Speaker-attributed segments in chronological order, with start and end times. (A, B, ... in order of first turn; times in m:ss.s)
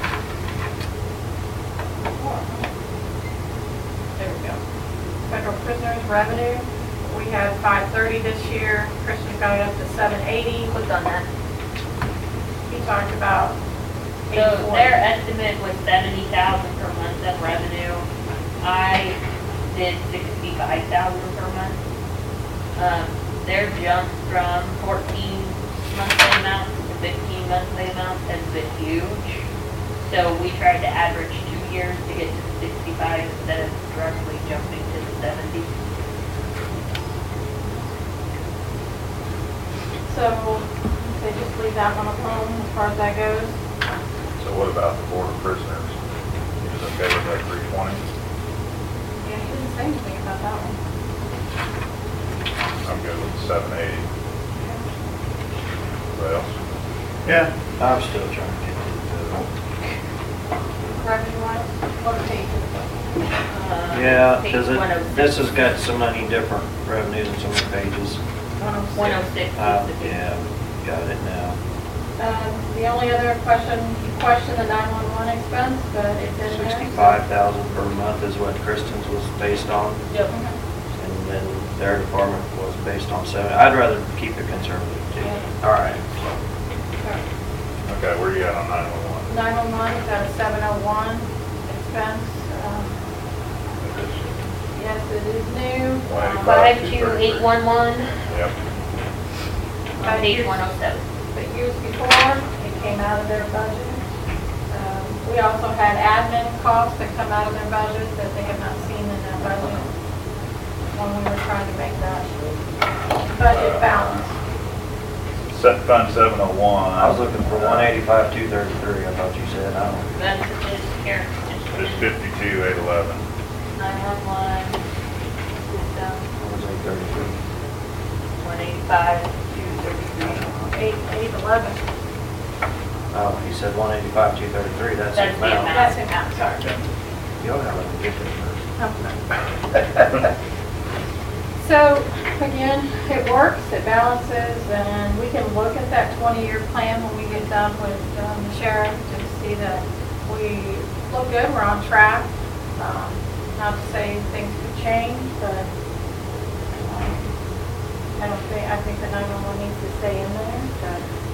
0:02.1-0:02.7 A
0:04.2-0:04.6 A
0:05.2-0:10.7 A
0:10.7-0:11.3 B
0:12.7-0:13.6 A
0:14.3-0:15.1 A
0:14.3-0:18.1 B
0:18.6-0:21.8 B
0:22.8-0:29.5 B
0:30.0-0:35.7 B
0:40.1-0:43.6 A
0:44.4-0:45.9 C
0:46.6-0:48.0 C
0:49.2-0:50.8 A
0:52.8-0:54.0 C
0:56.1-0:56.5 C
0:57.3-0:57.5 C
0:57.8-0:59.5 D
1:01.0-1:03.1 A
1:03.5-1:05.4 B
1:03.9-1:08.2 D
1:08.6-1:09.3 A
1:08.9-1:10.3 B
1:09.6-1:11.6 D
1:12.2-1:17.2 A
1:16.5-1:20.0 D
1:20.3-1:20.6 A
1:21.0-1:26.4 D
1:27.9-1:29.3 C
1:29.3-1:33.0 A
1:33.8-1:34.4 C
1:34.8-1:36.6 A
1:36.1-1:37.6 C
1:36.4-1:38.1 B
1:38.3-1:38.5 C
1:40.0-1:40.8 A
1:40.0-1:41.0 B
1:41.3-1:44.0 A
1:44.7-1:49.9 A
1:50.9-1:52.3 A
1:53.3-1:54.3 A
1:53.5-1:54.2 C
1:55.5-1:57.9 C
1:57.0-2:00.0 D
2:00.2-2:02.2 B
2:01.7-2:03.2 C
2:03.8-2:04.8 B
2:05.6-2:06.2 B
2:06.4-2:07.4 D
2:08.4-2:10.6 B
2:10.6-2:11.8 A
2:13.1-2:15.8 D
2:15.1-2:16.0 B
2:15.7-2:16.8 A
2:17.4-2:18.6 D
2:18.8-2:19.2 A
2:21.6-2:35.7 A
2:36.8-2:37.3 A
2:38.2-2:41.0 A